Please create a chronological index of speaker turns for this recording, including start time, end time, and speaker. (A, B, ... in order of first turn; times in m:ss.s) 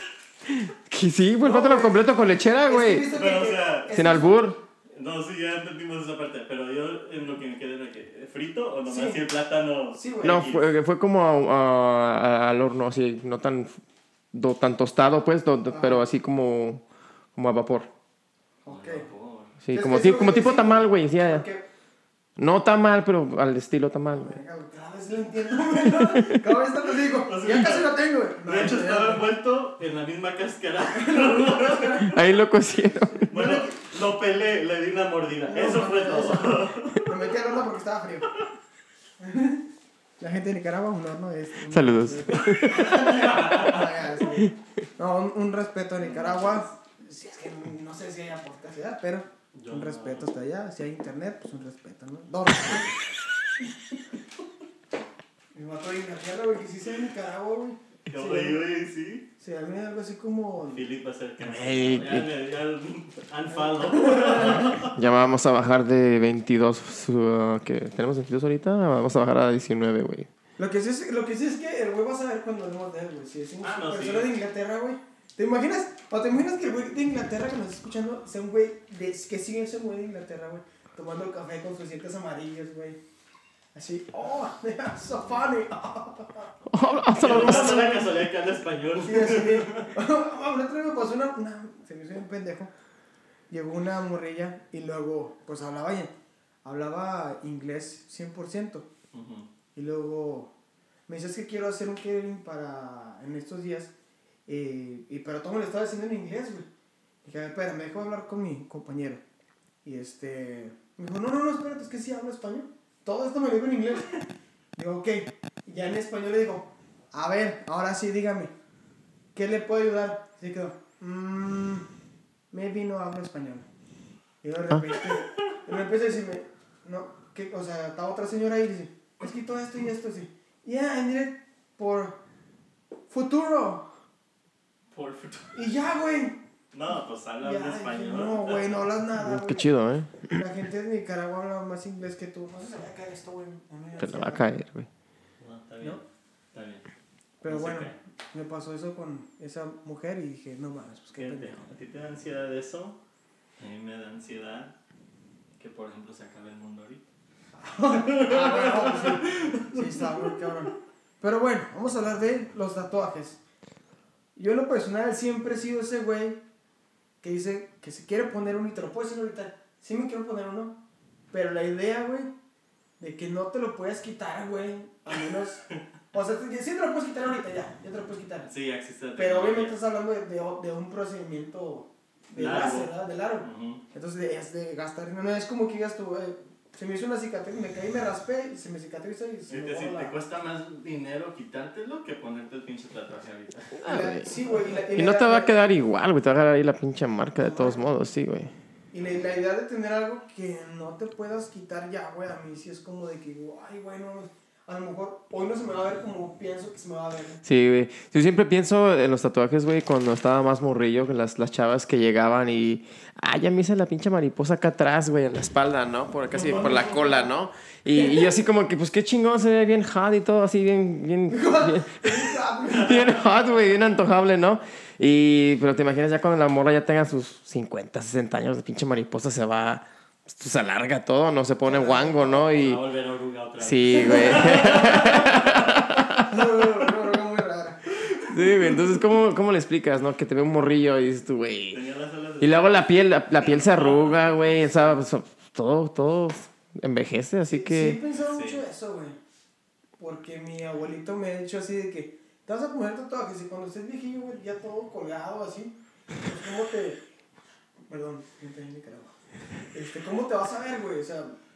0:00.4-0:03.1 A
0:01.4-0:02.1 B
0:02.6-0:04.4 B
0:03.1-0:04.1 C
0:03.9-0:04.6 A
0:04.9-0:10.6 C
0:08.9-0:09.2 B
0:10.0-0:10.5 B
0:10.2-0:13.8 A
0:14.3-0:16.8 A
0:15.7-0:16.0 B
0:17.4-0:17.9 A
0:18.6-0:19.1 B
0:18.7-0:19.5 C
0:19.6-0:21.5 A
0:19.7-0:21.6 B
0:22.4-0:24.4 A
0:24.1-0:29.3 B
0:25.9-0:26.5 A
0:27.2-0:32.1 C
0:31.0-0:31.9 B
0:32.0-0:33.3 A
0:33.2-0:33.7 B
0:33.3-0:37.3 C
0:35.5-0:38.3 B
0:39.2-0:39.6 B
0:40.2-0:53.0 B
0:41.7-0:43.4 A
0:42.3-0:44.0 C
0:46.0-0:46.6 C
0:49.6-0:50.3 C
0:55.5-0:58.6 B
0:58.1-0:59.3 C
0:59.4-1:00.8 B
1:00.7-1:05.0 C
1:01.4-1:02.3 A
1:03.5-1:04.8 B
1:04.8-1:10.3 A
1:10.6-1:23.0 B
1:13.6-1:14.3 C
1:23.8-1:26.5 B
1:26.7-1:27.8 A
1:27.1-1:28.2 B
1:27.1-1:29.9 C
1:29.0-1:32.7 B
1:33.5-1:36.1 B
1:36.6-1:38.9 B
1:39.1-1:39.5 C
1:39.8-1:40.5 B
1:41.1-1:43.9 B
1:44.5-1:46.7 B
1:47.2-1:49.2 B
1:49.8-1:54.2 B
1:54.8-1:58.5 B
1:59.4-2:01.9 B
2:02.5-2:03.7 B
2:04.4-2:12.2 B
2:05.1-2:05.6 C
2:13.1-2:13.9 B
2:14.9-2:15.6 C
2:15.5-2:16.4 B
2:16.7-2:18.8 C
2:17.4-2:19.7 B
2:19.2-2:20.4 A
2:20.3-2:24.5 B
2:24.0-2:24.9 A
2:25.4-2:26.0 C
2:26.5-2:26.9 C
2:27.4-2:31.5 B
2:27.5-2:28.0 C
2:31.2-2:33.0 C
2:33.6-2:34.7 C
2:35.6-2:37.0 C
2:37.6-2:43.4 B
2:37.9-2:40.7 C
2:44.4-2:46.4 B
2:47.2-2:50.8 B
2:51.3-2:52.3 B
2:53.0-2:55.6 B
2:56.1-2:58.5 B
2:58.5-2:59.8 C
2:59.2-3:10.1 B
3:02.4-3:03.8 C
3:09.5-3:13.8 C
3:13.8-3:14.3 A
3:13.8-3:15.6 B
3:14.9-3:18.5 A
3:17.4-3:17.9 B
3:18.9-3:27.4 B
3:27.4-3:52.8 A
3:36.4-3:37.1 C
3:36.4-3:37.2 B
3:37.9-3:38.4 B
3:41.3-3:43.2 B
3:42.7-3:43.1 C
3:51.6-3:52.5 B
3:52.2-3:56.1 C
3:53.6-3:56.4 A
3:54.0-3:54.7 B
3:56.2-3:58.0 B
3:58.0-3:59.0 C
3:58.3-4:01.8 A
4:01.7-4:02.9 C
4:02.4-4:08.0 A
4:03.4-4:05.0 C
4:07.5-4:09.2 B
4:08.3-4:08.6 C
4:10.0-4:17.0 B
4:17.9-4:19.1 B
4:19.7-4:21.4 B